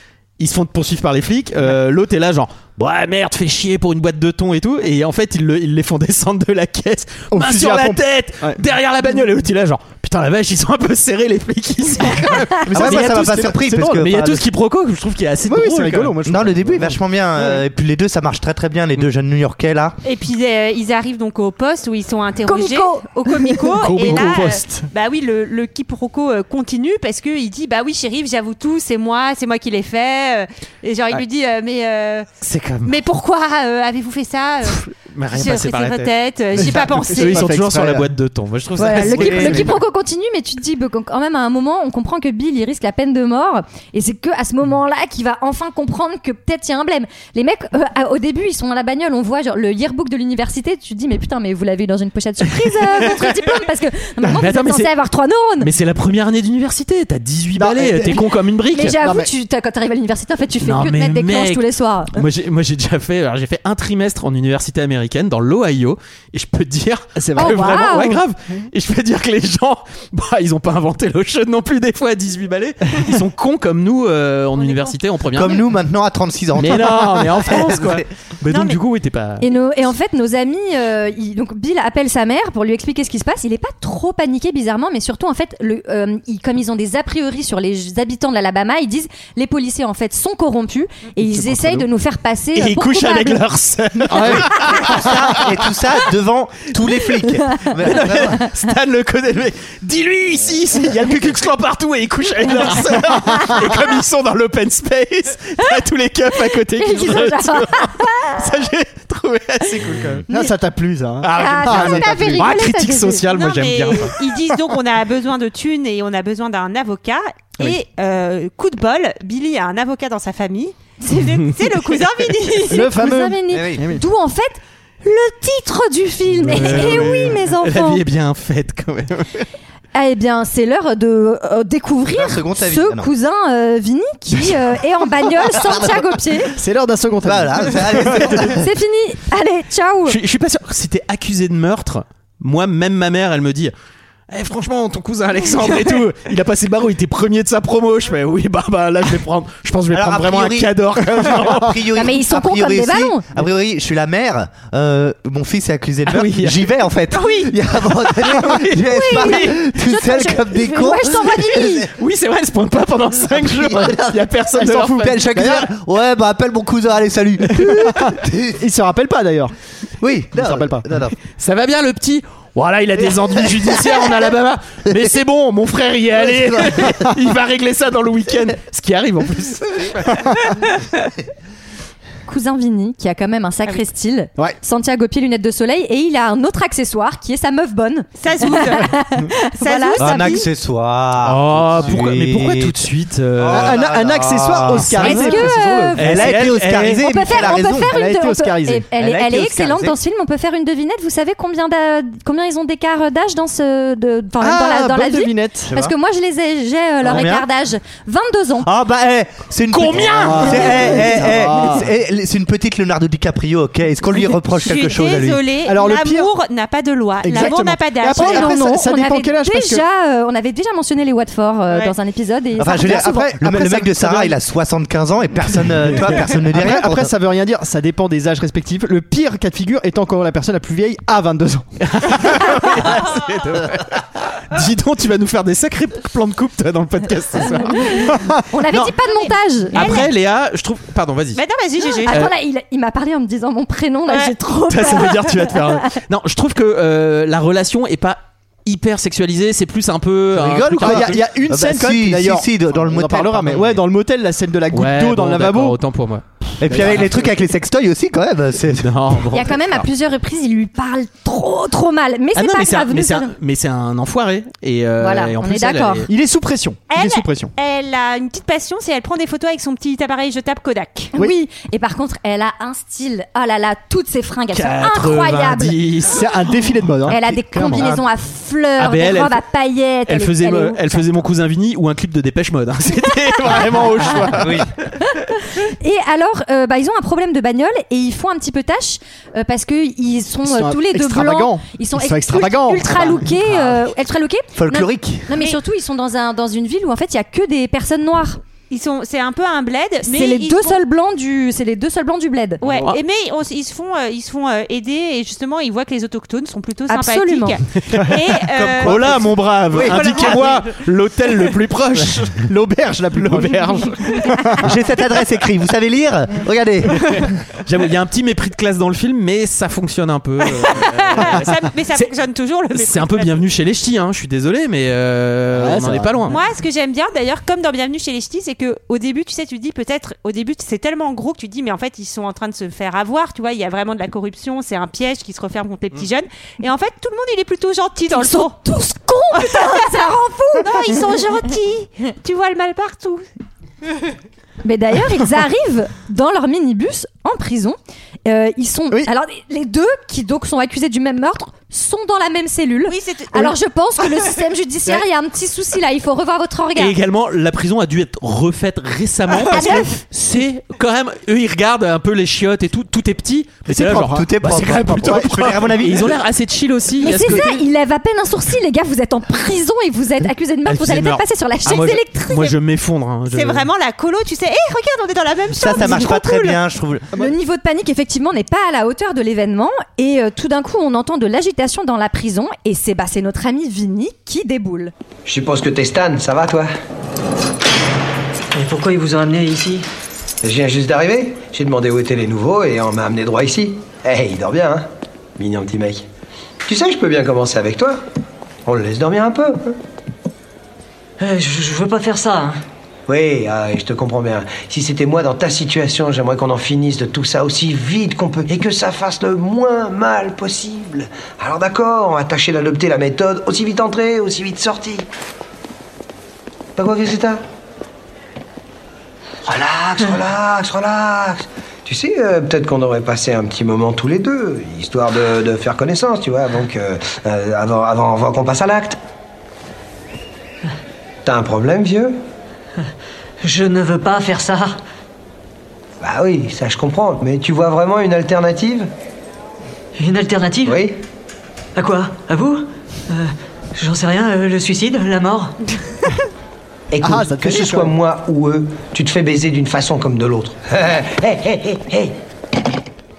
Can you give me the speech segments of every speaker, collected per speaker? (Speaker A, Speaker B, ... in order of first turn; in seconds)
Speaker A: 0.4-16.2, 32.4-33.0, 34.6-39.8, 52.8-53.3, 54.2-54.9, 55.6-59.0, 60.6-75.6, 76.6-79.5, 92.5-95.3, 97.8-110.2, 111.2-114.2, 126.4-129.5, 140.1-143.7, 144.3-151.8, 156.1-156.7, 158.1-159.6, 162.0-165.2, 171.4-180.4, 191.2-193.8, 194.7-195.3, 196.0-197.0, 209.7-211.1, 231.8-238.9, 239.7-241.4, 242.1-242.3, 244.7-251.2, 254.7-256.2, 256.8-257.1, 258.8-259.6, 262.4-266.1, 274.5-276.3, 278.8-279.4, 280.1-284.7, 302.7-303.0, 308.8-312.5, 313.1-314.3, 317.1-322.1, 322.7-326.4, 356.8-367.6, 370.7-373.7
Speaker B: 7.3-8.6, 12.6-14.0, 15.4-17.6, 23.8-24.9, 36.6-38.1, 57.5-58.3, 59.0-59.3, 67.2-68.1, 91.2-91.9, 94.1-94.9, 110.0-112.5, 122.7-124.0, 126.5-127.3, 136.5-138.6, 164.6-165.7, 167.6-168.0, 168.6-169.5, 170.4-170.8, 193.5-196.5, 197.8-198.9, 204.4-205.7, 210.0-211.9, 215.7-216.3, 217.2-219.8, 222.7-224.3, 225.9-232.5, 238.2-238.4, 250.8-255.8, 256.6-257.3, 266.1-267.5, 276.1-278.0, 290.5-293.4, 309.8-310.6, 312.3-314.7, 325.5-326.4, 363.7-365.6, 447.0-447.9
Speaker C: 12.7-14.4, 16.2-20.0, 39.0-39.7, 75.3-78.0, 94.2-98.4, 123.5-123.8, 132.1-133.1, 137.2-138.6, 149.9-161.9, 163.3-164.3, 164.8-168.6, 170.0-171.2, 190.0-192.8, 193.4-195.4, 196.0-197.9, 199.0-200.0, 205.7-205.9, 207.0-207.5, 208.6-215.4, 222.6-227.1, 250.3-253.8, 256.6-259.7, 284.4-284.7, 294.6-295.3, 308.5-309.9, 314.6-317.2, 364.0-366.2, 375.5-377.1
Speaker D: 20.0-32.3, 32.8-37.5, 74.6-74.9, 78.5-78.8, 113.3-123.0, 188.2-189.1, 189.6-190.4, 214.5-218.7, 221.7-221.9, 239.0-240.1, 241.3-242.3, 244.1-244.3, 266.9-271.1, 298.7-300.8, 302.6-309.1, 309.9-310.6, 320.5-323.4, 326.3-338.6, 339.4-343.2, 352.9-353.5, 373.3-376.6
Speaker E: 22.5-23.7, 38.8-55.7, 58.7-62.2, 67.4-68.2, 79.4-93.4, 106.8-108.4, 111.4-113.3, 122.7-128.0, 129.9-136.5, 138.5-140.2, 151.9-153.2, 158.8-161.9, 182.3-190.5, 195.0-196.3, 196.8-208.7, 218.2-223.3, 237.9-240.0, 242.1-245.9, 259.3-263.3, 265.0-266.1, 271.1-275.8, 277.1-281.0, 285.8-298.4, 300.1-302.6, 306.9-307.6, 338.1-341.0, 344.6-357.0, 359.5-359.9, 367.0-372.5, 375.7-376.2, 377.1-384.9
Speaker F: 385.3-386.7, 390.4-396.1, 396.7-398.0, 398.7-399.8, 403.1-415.1, 416.8-417.4, 419.5-429.0, 431.2-432.2, 436.0-438.9, 440.6-441.0, 446.9-452.2
Speaker G: 388.5-389.9, 401.2-402.6, 433.4-434.8, 440.0-440.8, 441.8-445.6